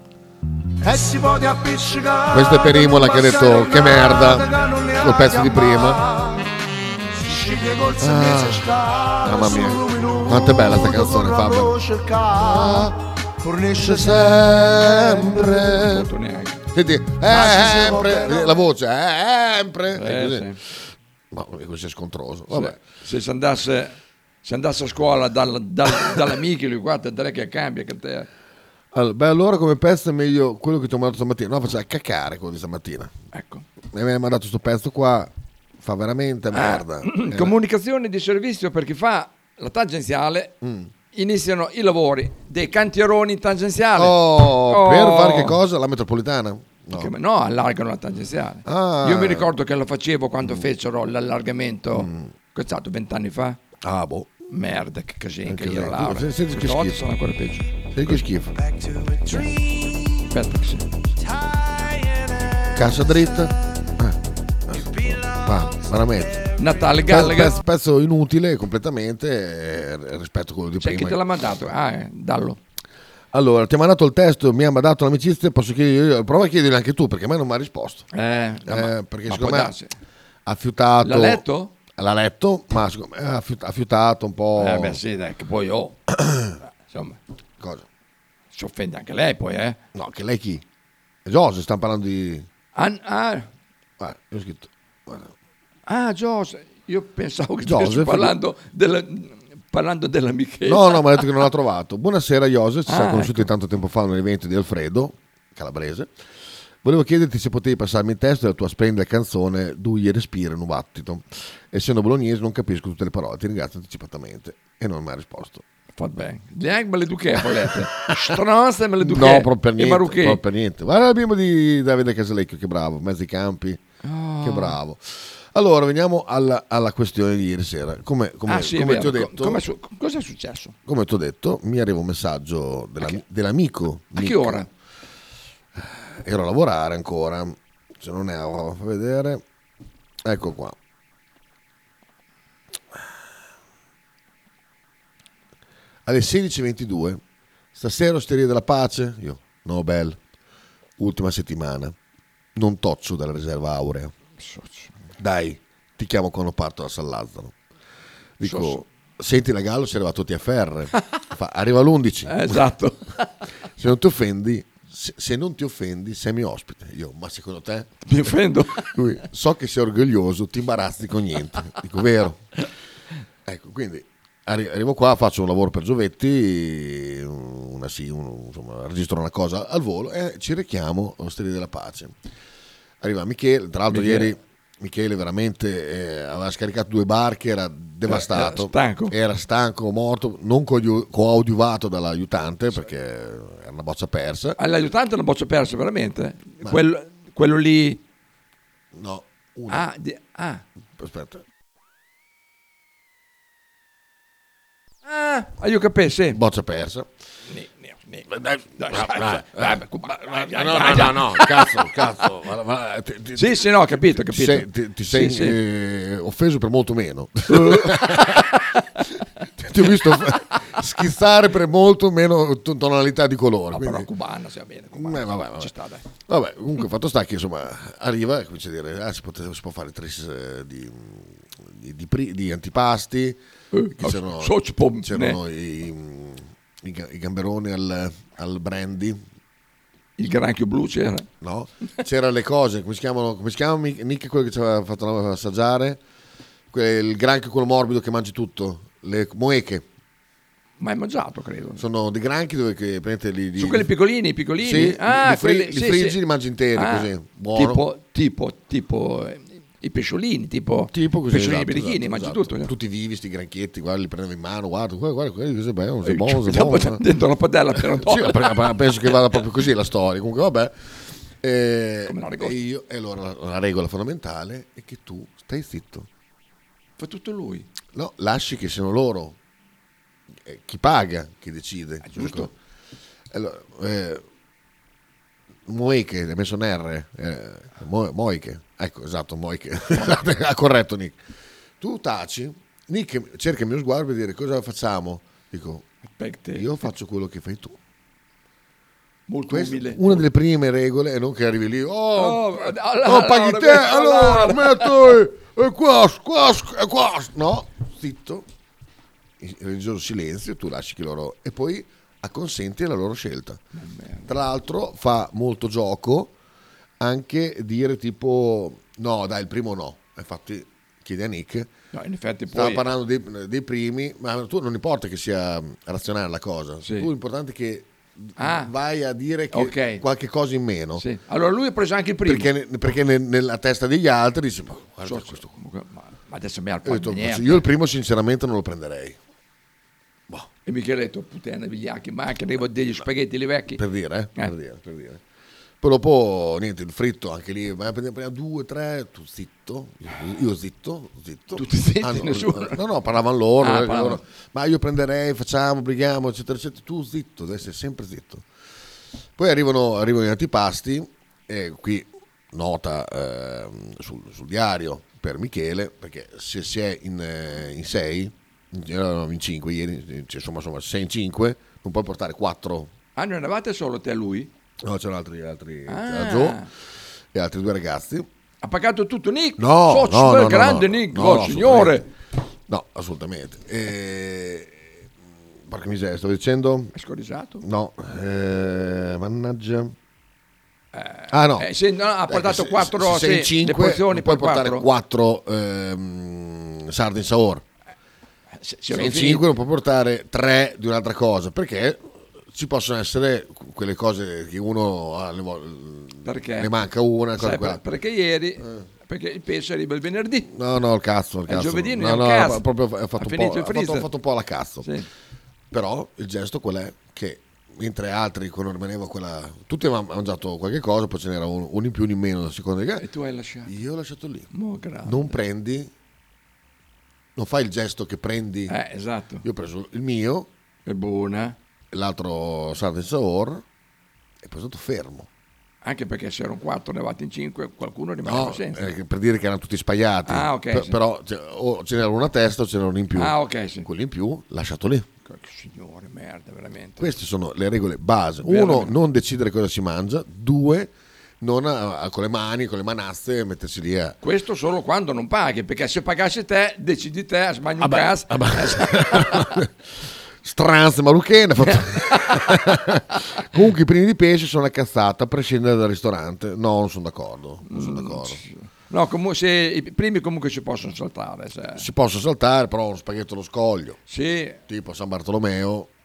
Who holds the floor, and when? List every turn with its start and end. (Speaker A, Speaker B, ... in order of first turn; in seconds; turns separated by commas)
Speaker A: 0.8-6.5, Speaker B: 2.3-4.5, Speaker B: 5.0-6.0, Speaker A: 7.2-15.8, Speaker B: 8.0-8.7, Speaker B: 9.2-11.8, Speaker B: 12.5-12.9, Speaker B: 13.8-16.1, Speaker C: 15.8-16.6, Speaker B: 16.7-20.6, Speaker A: 17.2-18.6, Speaker C: 19.9-20.6, Speaker B: 21.3-22.8, Speaker C: 22.5-28.3, Speaker B: 28.9-33.1, Speaker C: 33.3-33.6, Speaker B: 33.9-37.5, Speaker C: 36.5-40.6, Speaker B: 40.6-40.9, Speaker C: 41.1-45.6, Speaker B: 44.0-47.1, Speaker C: 46.9-53.6, Speaker B: 48.6-49.5, Speaker B: 50.4-50.7, Speaker B: 51.9-52.3, Speaker B: 53.8-54.3, Speaker C: 54.5-57.8, Speaker B: 55.5-57.0, Speaker B: 57.9-58.5, Speaker A: 58.8-59.1, Speaker C: 59.2-59.5, Speaker C: 60.3-60.9, Speaker B: 62.7-66.5, Speaker C: 66.6-67.5, Speaker B: 67.1-71.2, Speaker C: 70.8-72.6, Speaker B: 73.3-78.1, Speaker C: 78.1-79.9, Speaker B: 78.7-79.7, Speaker B: 80.5-81.4, Speaker C: 81.0-81.8, Speaker B: 82.0-85.0, Speaker C: 84.6-86.0, Speaker B: 86.1-86.6, Speaker C: 86.7-87.2, Speaker B: 87.6-87.9, Speaker C: 88.5-89.8, Speaker B: 89.9-90.6, Speaker B: 91.2-92.5, Speaker C: 92.8-93.5, Speaker B: 94.0-95.3, Speaker C: 95.9-101.3, Speaker B: 97.7-98.3, Speaker B: 100.7-106.1, Speaker C: 102.9-103.5, Speaker B: 106.8-115.6, Speaker C: 116.0-120.4, Speaker B: 117.6-118.2, Speaker B: 119.0-123.8, Speaker C: 124.0-124.8, Speaker B: 124.4-129.6, Speaker C: 128.5-130.8, Speaker B: 130.9-134.7, Speaker C: 134.2-134.7, Speaker B: 135.8-139.4, Speaker B: 140.2-140.8, Speaker B: 146.1-147.2, Speaker B: 147.8-150.2, Speaker B: 151.0-151.9, Speaker B: 152.6-154.1, Speaker C: 154.4-154.9, Speaker B: 155.2-157.6, Speaker B: 158.4-162.7, Speaker C: 158.4-158.8, Speaker C: 162.3-163.3, Speaker B: 163.8-167.9, Speaker C: 168.1-168.9, Speaker B: 168.8-172.5, Speaker B: 173.4-182.2, Speaker B: 183.0-194.6, Speaker C: 183.9-184.3, Speaker C: 188.1-189.1, Speaker C: 194.6-198.0, Speaker B: 198.9-199.9, Speaker C: 199.7-200.6, Speaker B: 201.0-201.4, Speaker C: 205.1-206.4, Speaker B: 206.3-207.1, Speaker C: 207.5-211.8, Speaker B: 208.3-218.6, Speaker C: 213.4-215.6, Speaker C: 217.5-218.8, Speaker B: 219.6-224.1, Speaker C: 223.7-226.1, Speaker B: 224.9-225.7, Speaker B: 226.2-233.4, Speaker C: 233.7-235.4, Speaker B: 234.0-239.2, Speaker C: 240.2-241.3, Speaker B: 241.4-246.0, Speaker B: 246.7-249.8, Speaker C: 250.8-251.8, Speaker B: 251.8-253.9, Speaker C: 253.6-256.2, Speaker B: 254.6-257.8, Speaker C: 256.8-262.7, Speaker B: 260.9-267.0, Speaker C: 266.1-268.8, Speaker B: 267.8-270.7, Speaker B: 271.4-276.1, Speaker C: 272.1-272.6, Speaker C: 277.0-277.7, Speaker B: 277.9-279.4, Speaker B: 280.4-282.5, Speaker C: 282.0-282.5, Speaker B: 283.3-284.2, Speaker B: 285.7-291.2, Speaker B: 291.8-295.9, Speaker C: 296.1-296.7, Speaker B: 296.5-297.8, Speaker C: 299.3-300.2, Speaker B: 299.5-308.5, Speaker C: 302.1-304.9, Speaker B: 309.4-313.6, Speaker C: 313.8-314.3, Speaker B: 314.3-316.3, Speaker B: 317.0-321.7, Speaker C: 321.9-322.9, Speaker B: 322.5-331.0, Speaker C: 326.8-327.1, Speaker C: 328.4-328.7, Speaker C: 329.5-330.0, Speaker C: 331.0-332.5, Speaker B: 332.2-335.5, Speaker C: 335.0-337.7, Speaker B: 336.9-339.2, Speaker C: 340.7-343.8, Speaker B: 343.8-345.2, Speaker B: 345.8-358.5, Speaker C: 351.6-352.8, Speaker C: 353.6-354.2, Speaker B: 359.4-372.9, Speaker C: 373.1-374.5, Speaker B: 374.8-376.6, Speaker C: 375.9-376.7, Speaker B: 377.3-378.3, Speaker C: 378.6-382.1, Speaker B: 379.6-382.0, Speaker B: 382.7-385.1, Speaker B: 385.6-386.9, Speaker C: 386.9-387.6, Speaker B: 387.6-389.9, Speaker C: 390.9-394.9, Speaker B: 391.3-391.7, Speaker B: 392.3-397.6, Speaker C: 398.6-399.4, Speaker B: 398.9-407.8, Speaker C: 406.2-406.7, Speaker C: 407.4-410.5, Speaker B: 408.6-408.9, Speaker B: 410.5-414.9, Speaker C: 411.5-412.6, Speaker C: 413.2-414.1, Speaker B: 415.7-423.1, Speaker C: 423.0-423.7, Speaker B: 423.6-424.5, Speaker C: 424.5-425.4, Speaker B: 425.0-425.9, Speaker B: 427.4-428.8, Speaker C: 428.7-429.4, Speaker B: 429.4-430.5, Speaker C: 430.9-431.6, Speaker B: 431.9-433.6, Speaker B: 434.4-435.3, Speaker C: 435.8-438.9, Speaker B: 438.2-445.1, Speaker C: 440.3-441.0, Speaker C: 443.1-443.9, Speaker C: 445.3-447.1, Speaker B: 447.0-454.2, Speaker C: 448.4-449.0, Speaker C: 454.2-459.6, Speaker B: 457.8-459.7, Speaker B: 460.4-468.4, Speaker C: 461.9-462.5, Speaker C: 467.7-471.9, Speaker B: 471.8-474.0, Speaker C: 474.1-474.6, Speaker B: 474.7-475.9